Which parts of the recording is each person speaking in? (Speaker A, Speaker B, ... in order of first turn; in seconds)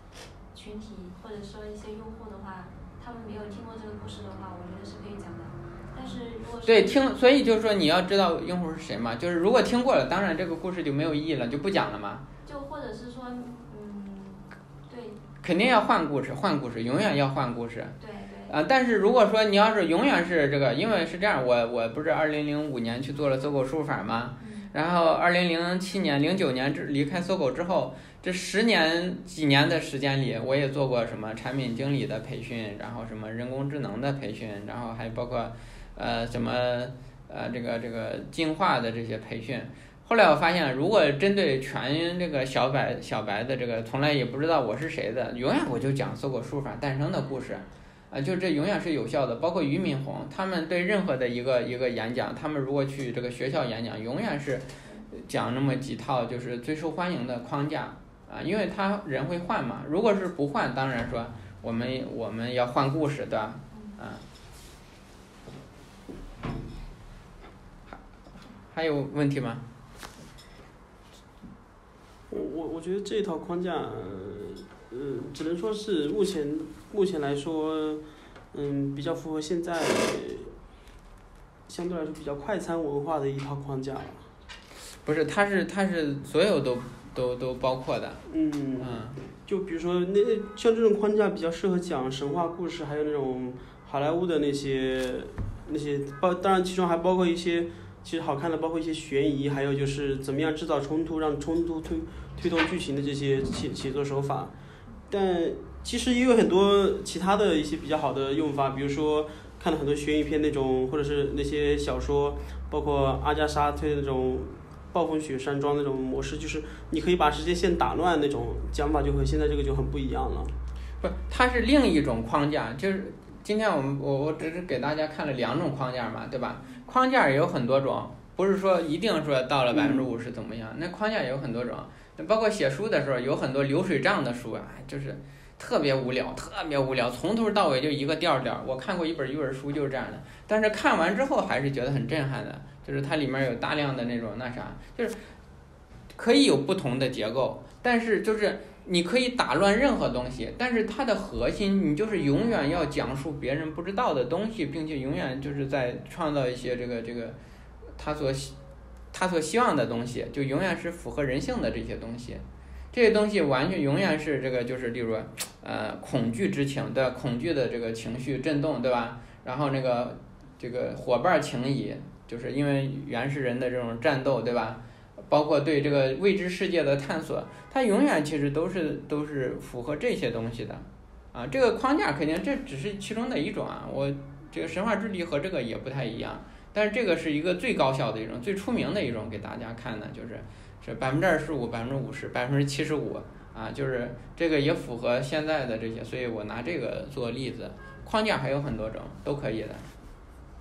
Speaker A: 0.5-7.2, 12.4-15.2, 18.0-18.6, 24.4-24.8, 54.8-55.1, 63.7-64.0
Speaker B: 6.7-12.2, 15.4-17.9, 18.5-64.2, 68.7-69.7, 85.0-88.2, 88.8-89.2, 121.0-145.2, 146.2-157.4, 158.0-158.5, 159.1-199.9
Speaker C: 72.3-80.5, 81.7-84.3, 88.3-104.5, 105.1-120.6, 129.7-130.1